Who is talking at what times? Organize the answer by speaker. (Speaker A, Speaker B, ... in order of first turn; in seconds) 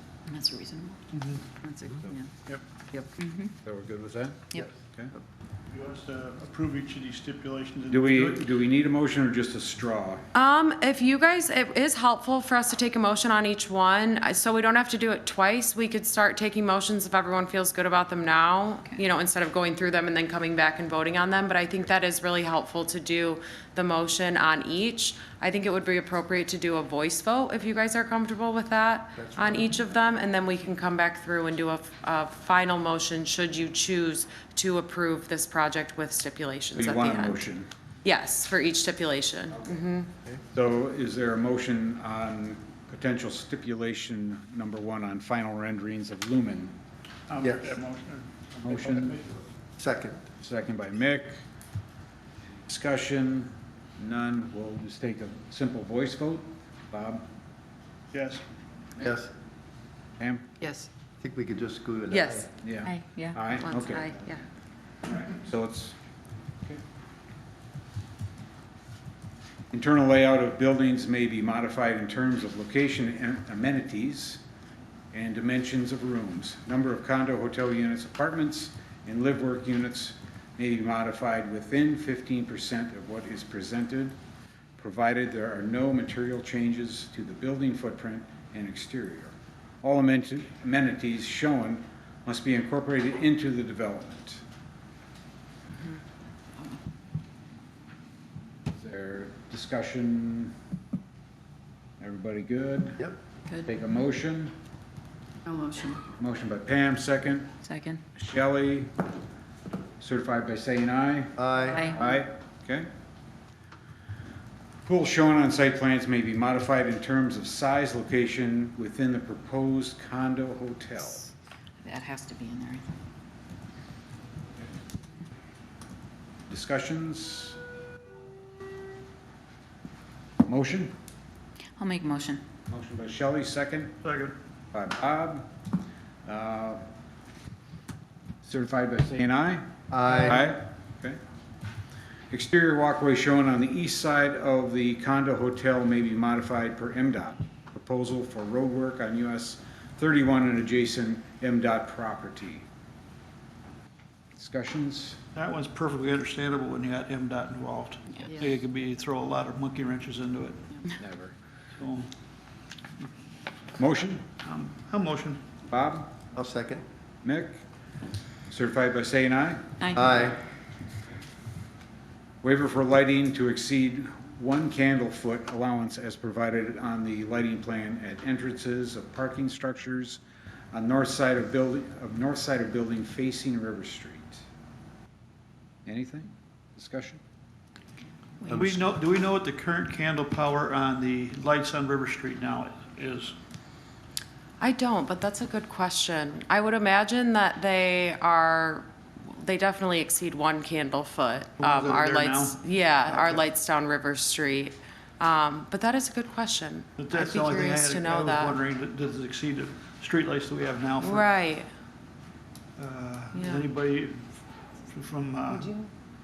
Speaker A: 0.3-1.0, 1.6-2.3, 2.9-3.5, 62.8-63.4, 107.6-108.0, 111.6-112.0, 121.8-122.9, 131.8-132.4, 188.4-188.8
Speaker B: 1.1-1.5, 5.7-8.5, 47.3-49.5, 58.1-58.4, 134.0-134.3, 155.3-160.8, 161.7-162.1, 164.4-165.4, 188.5-193.3, 201.6-203.4, 207.0-211.3, 212.8-215.7
Speaker C: 3.6-5.1, 7.9-10.2, 36.8-37.7, 39.5-39.8, 40.5-46.8, 48.6-49.2, 50.4-51.4, 52.7-57.2, 60.2-60.5, 62.6-64.2, 65.3-66.0, 69.7-74.4, 75.1-84.2, 84.8-94.4, 98.7-100.5, 102.0-103.1, 103.6-104.5, 106.2-107.5, 108.2-108.9, 110.0-112.9, 114.8-121.3, 126.5-127.6, 130.5-130.9, 132.7-134.0, 134.7-135.5, 136.3-136.8, 138.4-141.2, 142.3-152.7, 154.4-155.2, 160.9-161.3, 163.8-164.2, 165.7-166.1, 167.2-167.6, 168.5-169.7, 172.4-180.2, 180.7-184.4, 185.9-187.2
Speaker D: 10.3-37.4, 38.0-40.1, 62.1-62.5, 63.6-64.4, 194.6-208.6, 211.0-211.7, 213.3-213.7, 215.5-215.9
Speaker E: 29.2-29.7, 47.4-47.8, 49.8-50.2, 59.0-59.3, 61.2-62.5, 111.4-112.0, 139.9-140.4, 166.3-166.8, 169.9-170.4, 188.5-188.8